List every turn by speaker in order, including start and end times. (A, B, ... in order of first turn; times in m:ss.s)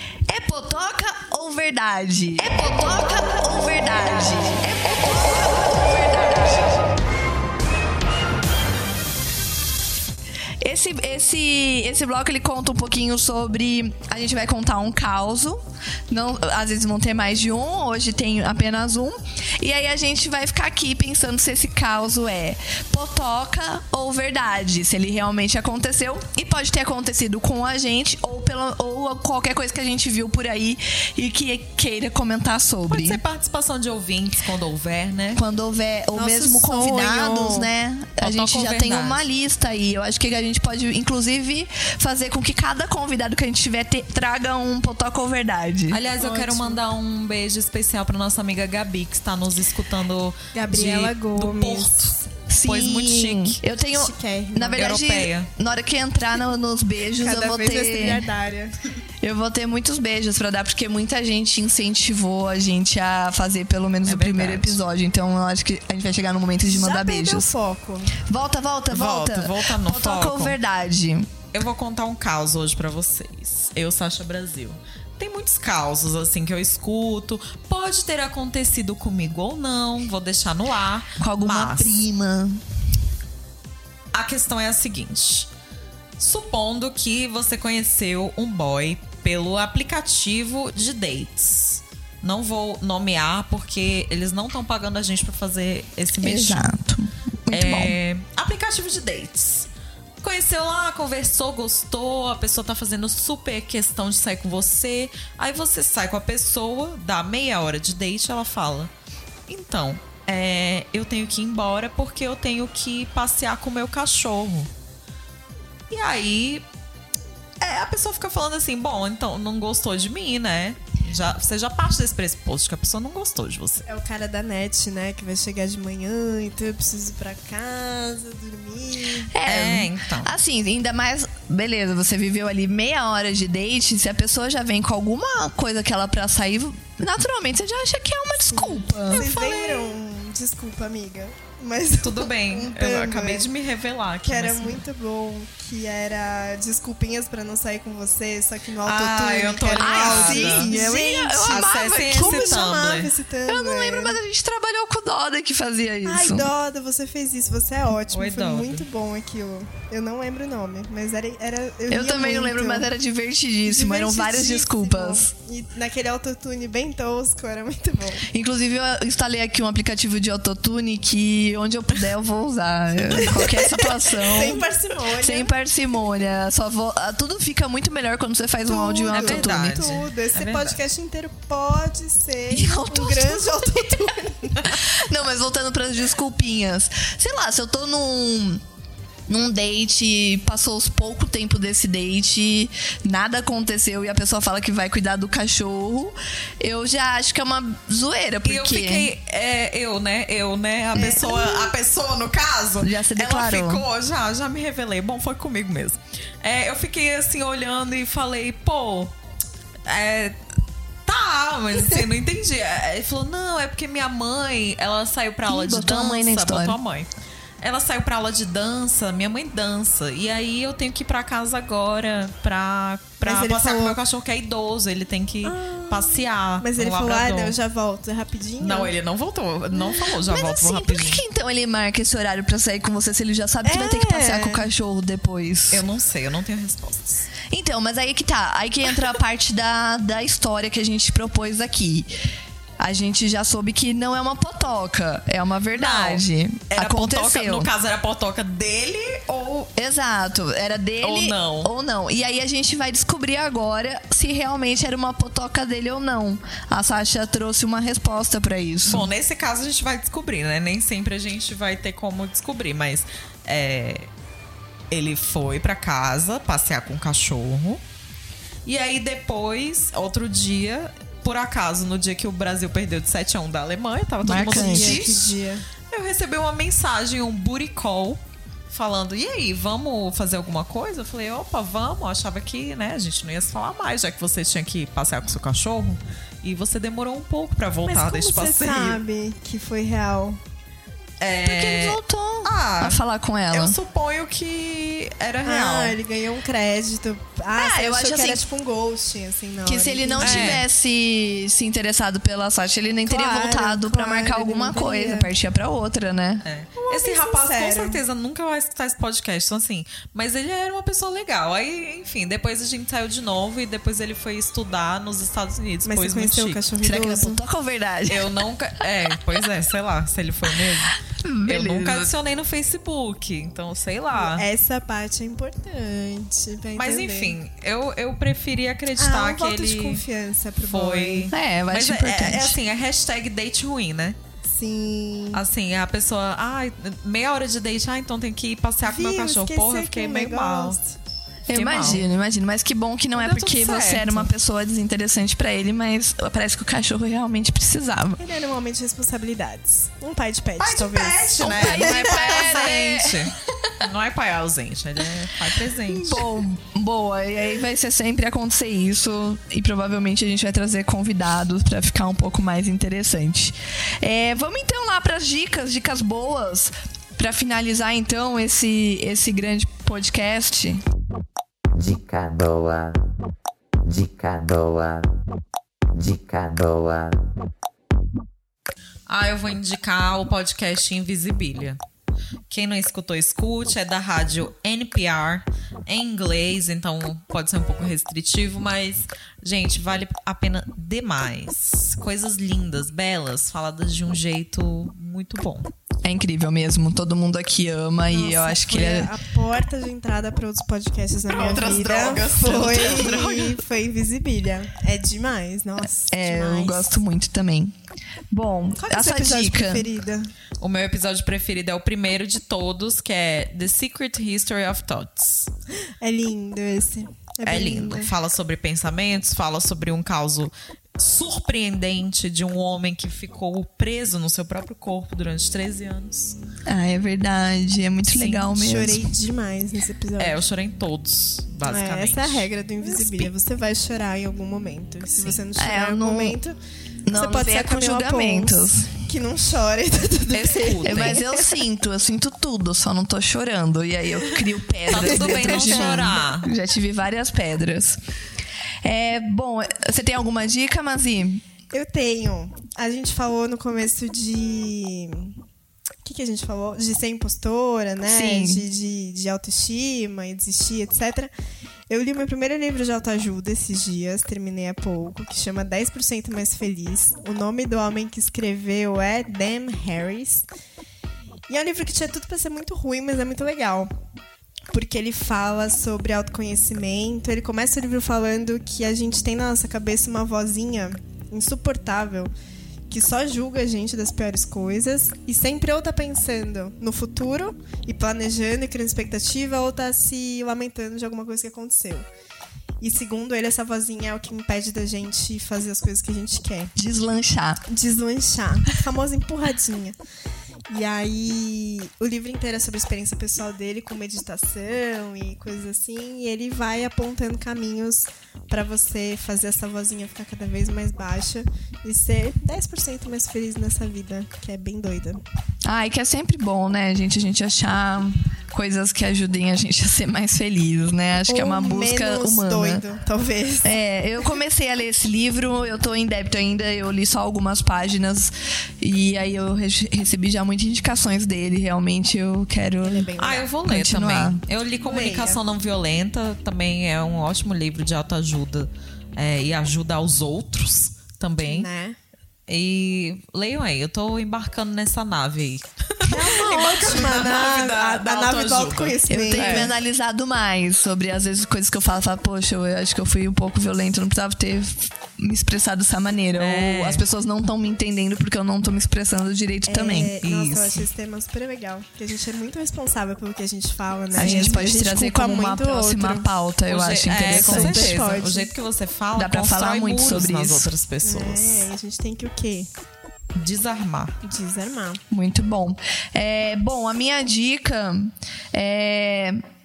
0:00.3-0:06.9 A
0:10.6-0:33.2 A
0:32.9-0:35.4 B
0:35.3-0:46.0 A
0:36.1-0:37.7 C
0:38.2-0:39.2 B
0:45.9-0:53.6 B
0:46.2-0:46.8 C
0:50.5-0:52.2 C
0:52.5-0:58.2 A
0:53.9-0:54.8 C
0:54.7-0:55.5 B
0:57.2-0:58.8 C
0:59.2-1:07.5 A
1:04.0-1:04.8 B
1:06.7-1:08.2 C
1:08.2-1:11.3 A
1:08.9-1:10.6 B
1:11.5-1:21.9 B
1:21.2-1:22.6 A
1:24.1-1:25.5 B
1:26.2-1:36.7 B
1:36.2-1:38.0 A
1:37.5-1:39.7 B
1:40.2-1:48.9 B
1:49.5-1:54.7 B
1:55.9-1:56.6 B
1:57.6-2:03.8 B
2:03.9-2:09.3 C
2:09.3-2:19.8 A
2:09.4-2:10.3 B
2:18.5-2:23.4 C
2:19.1-2:19.5 B
2:22.0-2:24.8 B
2:24.2-2:34.2 C
2:28.8-2:30.8 B
2:29.8-2:32.7 A
2:31.5-2:33.1 B
2:33.5-2:36.5 A
2:36.0-2:42.9 C
2:38.1-2:38.8 B
2:41.9-2:45.3 A
2:43.6-2:48.2 C
2:48.3-2:54.6 A
2:53.2-2:55.5 C
2:55.2-2:59.8 A
2:58.6-3:04.6 C
2:59.1-3:00.8 B
3:02.5-3:08.6 A
3:09.3-3:19.1 A
3:18.4-3:29.1 B
3:21.0-3:21.6 C
3:21.0-3:21.3 A
3:22.8-3:23.8 A
3:29.8-3:30.4 B
3:31.0-3:37.1 B
3:35.5-3:36.8 A
3:37.6-3:47.5 B
3:43.2-3:44.0 C
3:45.4-3:48.9 C
3:48.6-3:51.2 B
3:49.7-3:55.8 A
3:53.6-3:54.6 C
3:55.7-3:57.3 B
3:57.5-4:02.1 A
4:02.8-4:07.7 A
4:05.7-4:09.7 B
4:09.8-4:19.1 A
4:11.0-4:11.7 B
4:18.8-4:24.1 B
4:24.9-4:27.8 B
4:28.6-4:35.3 B
4:34.2-4:35.1 A
4:34.3-4:35.6 C
4:35.9-4:49.0 B
4:47.8-4:50.4 C
4:51.2-4:56.0 B
4:51.4-4:53.8 A
4:55.4-5:00.6 C
4:57.5-4:58.4 A
4:59.6-5:06.4 A
5:00.2-5:00.6 B
5:03.0-5:05.3 C
5:06.4-5:16.6 B
5:06.8-5:08.0 C
5:15.8-5:17.4 C
5:16.8-5:18.3 A
5:18.1-5:24.4 B
5:21.1-5:22.1 A
5:24.2-5:27.4 C
5:26.8-5:30.0 B
5:29.0-5:31.3 C
5:30.6-5:34.2 B
5:31.3-5:32.6 A
5:34.4-5:35.4 C
5:35.3-5:40.8 B
5:38.8-5:40.9 C
5:41.5-5:48.2 A
5:41.5-5:42.0 B
5:43.1-5:44.3 B
5:48.2-5:52.8 C
5:50.6-5:56.3 B
5:51.4-5:53.7 A
5:55.9-6:10.8 A
6:11.8-6:13.0 D
6:13.8-6:15.1 D
6:16.0-6:17.2 D
6:19.1-6:21.8 B
6:22.5-6:35.7 B
6:36.0-6:39.1 A
6:38.1-6:47.0 C
6:41.3-6:43.6 B
6:46.1-6:47.7 A
6:48.3-6:49.9 A
6:48.8-6:50.3 C
6:50.6-6:55.5 B
6:56.0-6:58.1 C
6:57.4-7:06.4 B
7:06.7-7:09.1 A
7:08.1-7:08.5 B
7:08.5-7:10.4 C
7:10.2-7:13.1 B
7:11.6-7:16.6 C
7:15.6-7:16.4 A
7:17.1-7:18.9 A
7:17.1-7:21.4 C
7:20.3-7:21.2 B
7:20.8-7:28.0 A
7:24.9-7:26.5 B
7:24.9-7:26.1 C
7:28.8-7:31.4 A
7:31.7-7:35.4 C
7:36.0-7:41.3 C
7:38.0-7:38.6 A
7:41.9-7:50.5 C
7:51.5-7:53.9 C
7:54.7-8:02.3 C
8:02.9-8:12.0 C
8:12.8-8:16.7 C
8:16.8-8:17.6 A
8:17.7-8:20.0 C
8:20.7-8:35.2 C
8:35.6-8:42.8 A
8:41.3-8:43.8 C
8:43.6-8:53.1 A
8:52.8-8:53.5 C
8:53.2-9:01.7 B
8:53.6-8:54.4 A
8:54.8-8:55.4 C
9:01.4-9:02.0 C
9:02.5-9:09.7 B
9:06.0-9:09.7 C
9:09.1-9:20.1 A
9:16.4-9:17.0 B
9:19.7-9:26.3 C
9:20.2-9:20.9 B
9:24.2-9:28.0 A
9:24.2-9:24.6 B
9:26.7-9:31.7 B
9:27.2-9:28.5 C
9:29.1-9:30.7 A
9:31.0-9:32.7 C
9:33.4-9:34.1 B
9:34.2-9:35.0 C
9:35.1-9:39.4 A